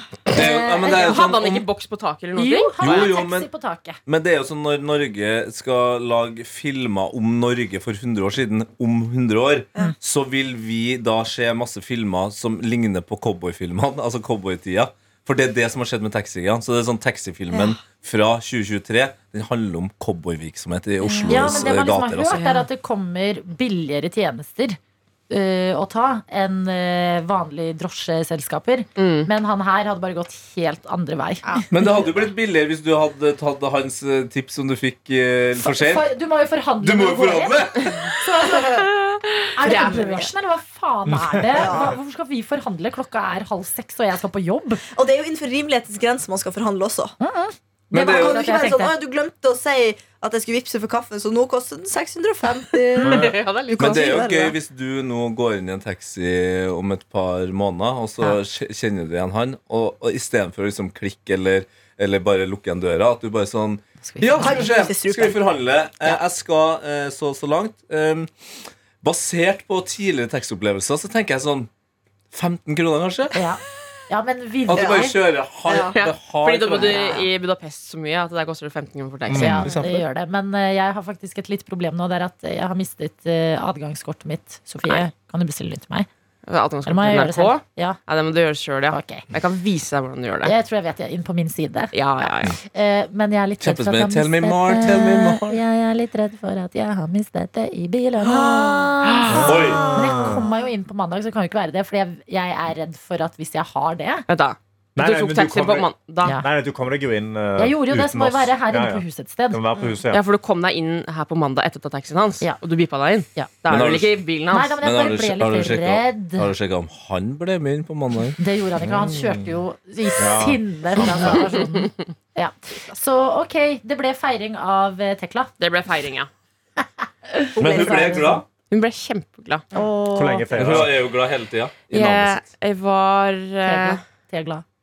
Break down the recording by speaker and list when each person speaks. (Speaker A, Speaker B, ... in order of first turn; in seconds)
Speaker A: 0.3-1.6, 2.8-3.5, 4.0-22.4, 31.7-36.1, 36.8-38.1, 47.9-48.6, 53.8-68.3, 69.0-71.7, 72.3-73.3, 74.7-77.2, 79.3-80.0, 93.6-95.6, 99.4-99.9, 113.7-114.1, 114.8-118.4, 127.6-128.4, 130.5-132.4
Speaker B: 0.3-1.2, 2.4-4.0, 21.2-24.8, 25.3-31.6, 35.6-38.9, 39.5-44.8, 47.2-49.0, 64.0-64.7, 73.3-75.2, 79.3-86.1, 86.8-88.0, 88.9-89.2, 90.4-91.9, 92.6-104.3, 107.5-109.6, 114.5-116.5, 118.4-125.5, 127.4-128.4, 129.7-130.5, 133.6-134.6
Speaker C: 1.0-3.1, 22.3-22.6, 29.0-29.3, 39.0-40.2, 52.8-54.1, 75.9-79.8, 86.5-90.5, 91.9-92.6, 104.3-106.3, 110.1-114.7, 125.6-126.3, 128.7-129.6, 131.9-134.0
Speaker D: 17.5-17.8, 21.1-21.5, 39.7-40.1, 41.5-42.0, 44.9-47.1, 47.9-54.5, 64.4-66.2, 74.7-75.1, 75.7-75.9, 98.3-98.8, 99.5-100.5, 122.7-123.0, 127.5-128.4
Speaker E: 41.1-41.9, 53.0-53.4, 79.3-79.6, 99.3-100.4, 105.0-110.2, 118.8-119.5, 120.2-121.4, 130.1-131.0